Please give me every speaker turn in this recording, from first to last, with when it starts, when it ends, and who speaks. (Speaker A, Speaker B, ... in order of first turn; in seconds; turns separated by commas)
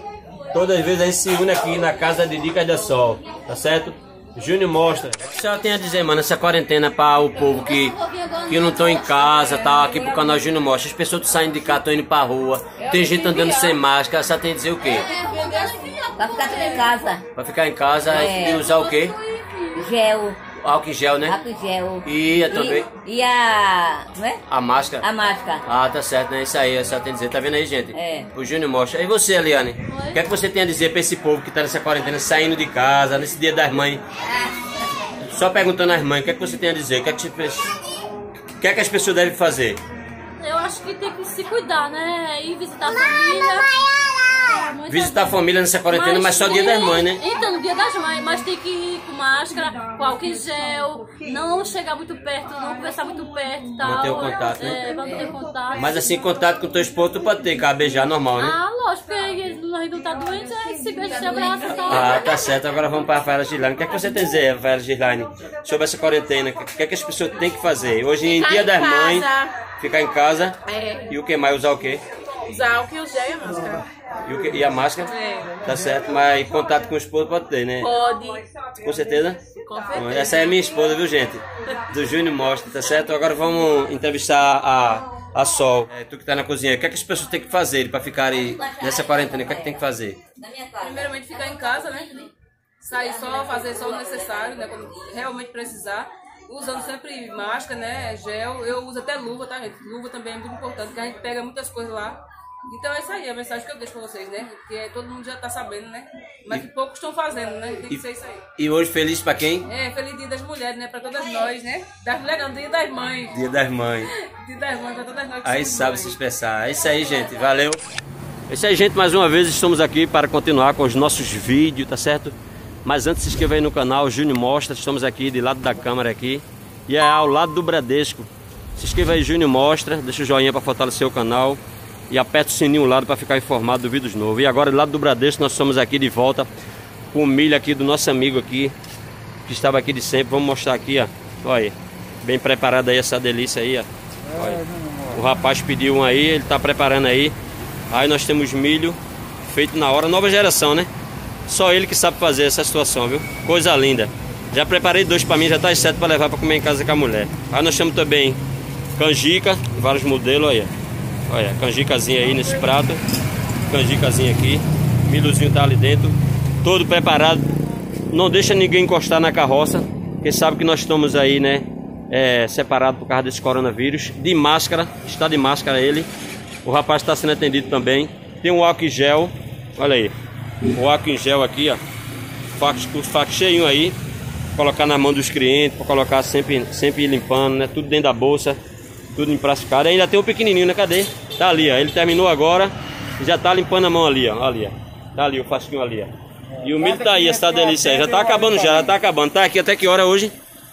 Speaker A: 0.5-15.1, Speaker B: 15.0-17.0, Speaker C: 16.2-17.3, Speaker A: 17.4-19.2, Speaker C: 18.1-18.7, Speaker B: 18.6-19.8, Speaker C: 19.7-20.4, Speaker A: 20.6-21.4, Speaker C: 21.3-24.4, Speaker A: 22.0-22.9, Speaker A: 24.5-25.1, Speaker C: 25.0-25.6, Speaker A: 25.6-34.0, Speaker C: 27.9-28.3, Speaker B: 29.9-30.2, Speaker A: 35.2-37.7, Speaker A: 38.6-39.8, Speaker B: 40.4-56.0, Speaker A: 44.9-47.2, Speaker A: 53.8-54.8, Speaker A: 55.8-58.6, Speaker B: 58.4-62.2, Speaker A: 61.9-72.0, Speaker B: 72.5-73.8, Speaker A: 74.2-77.9, Speaker B: 77.8-78.4, Speaker A: 78.8-90.2, Speaker D: 80.0-80.5, Speaker C: 88.5-89.8, Speaker C: 90.4-91.4, Speaker D: 90.8-92.3, Speaker D: 92.8-108.4, Speaker A: 108.6-109.7, Speaker D: 109.7-113.4, Speaker A: 113.3-114.1, Speaker D: 114.2-116.2, Speaker A: 115.4-117.8, Speaker A: 118.5-136.5, Speaker A: 137.1-138.8, Speaker A: 139.5-147.3, Speaker A: 147.9-150.9, Speaker A: 151.5-158.4, Speaker A: 159.0-160.7, Speaker A: 161.3-163.0, Speaker A: 163.7-167.5, Speaker A: 168.1-176.1, Speaker A: 176.6-180.1, Speaker A: 180.7-181.8, Speaker A: 182.6-184.0, Speaker A: 184.6-188.6, Speaker A: 189.2-200.3, Speaker D: 196.6-198.9